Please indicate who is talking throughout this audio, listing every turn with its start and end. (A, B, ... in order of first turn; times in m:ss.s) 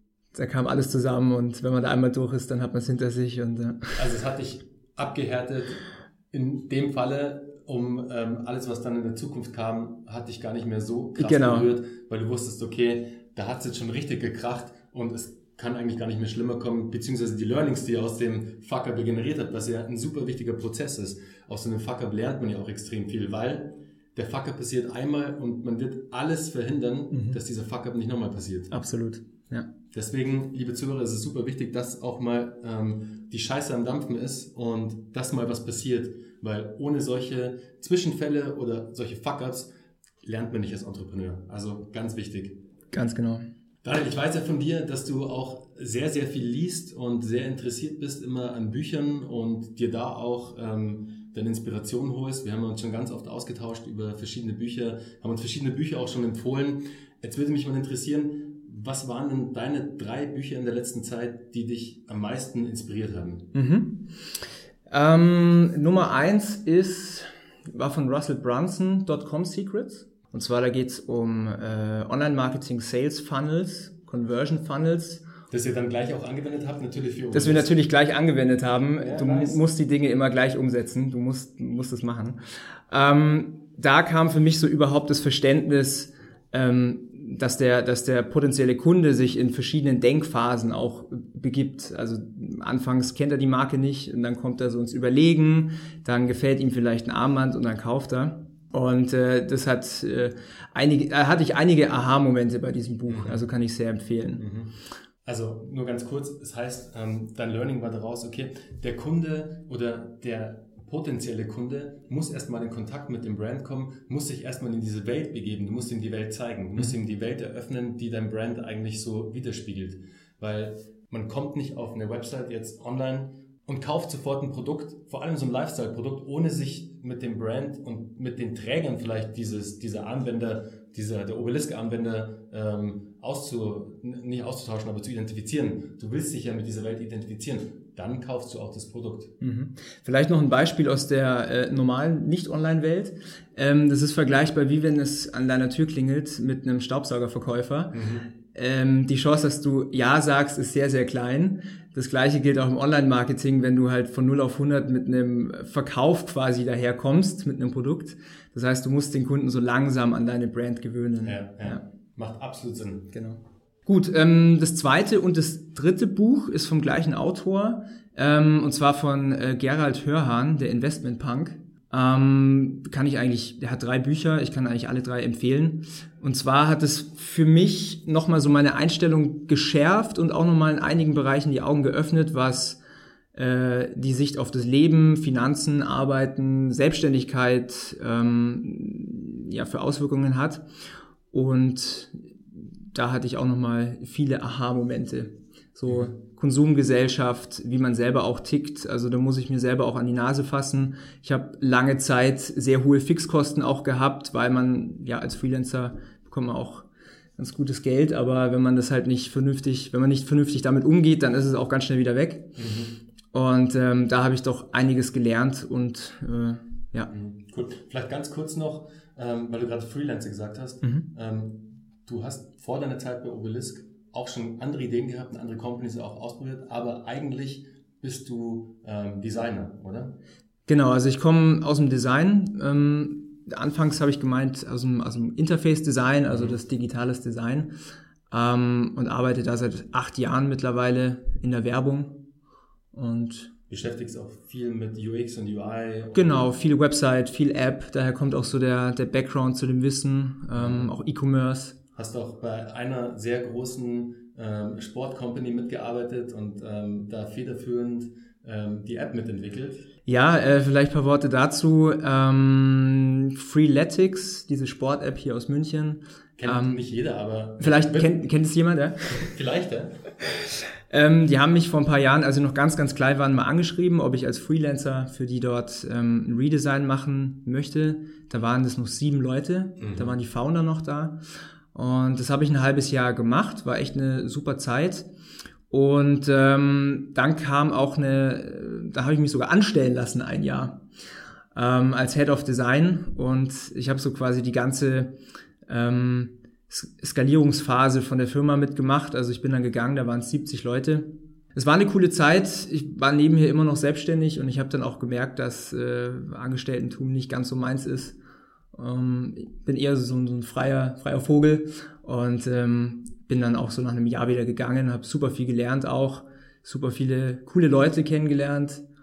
0:00.3-0:04.0 A
0:04.0-0:28.7 B
0:11.2-0:11.7 A
0:27.1-0:27.4 A
0:28.7-0:29.7 A
0:29.9-0:39.7 B
0:40.2-0:42.6 B
0:42.9-0:43.5 A
0:43.8-1:03.5 B
1:03.5-1:04.1 A
1:04.9-1:15.2 A
1:15.5-1:17.7 B
1:17.3-1:44.4 A
1:19.0-1:19.6 B
1:43.1-1:43.4 B
1:44.4-1:44.7 B
1:45.2-2:19.3 B
2:19.4-2:41.8 A
2:27.9-2:28.3 B
2:41.2-2:43.1 B
2:43.1-3:02.8 A
3:03.3-3:10.6 A
3:11.3-3:32.5 A
3:15.9-3:16.1 B
3:32.6-3:32.9 B
3:33.3-3:37.1 A
3:37.1-3:50.2 B
3:50.7-3:57.7 A
3:56.3-3:56.6 B
3:58.3-4:02.2 A
4:02.9-4:03.5 A
4:03.7-4:06.4 B
4:06.1-4:11.7 A
4:10.5-4:10.9 B
4:11.9-4:19.9 B
4:20.0-4:26.8 A
4:26.4-4:28.1 B
4:27.6-4:29.3 A
4:29.1-4:30.0 B
4:30.4-4:41.2 A
4:39.8-4:40.2 B
4:41.7-4:45.0 A
4:45.7-4:50.8 A
4:51.5-4:55.1 A
4:55.7-5:08.2 A
5:08.7-5:18.8 A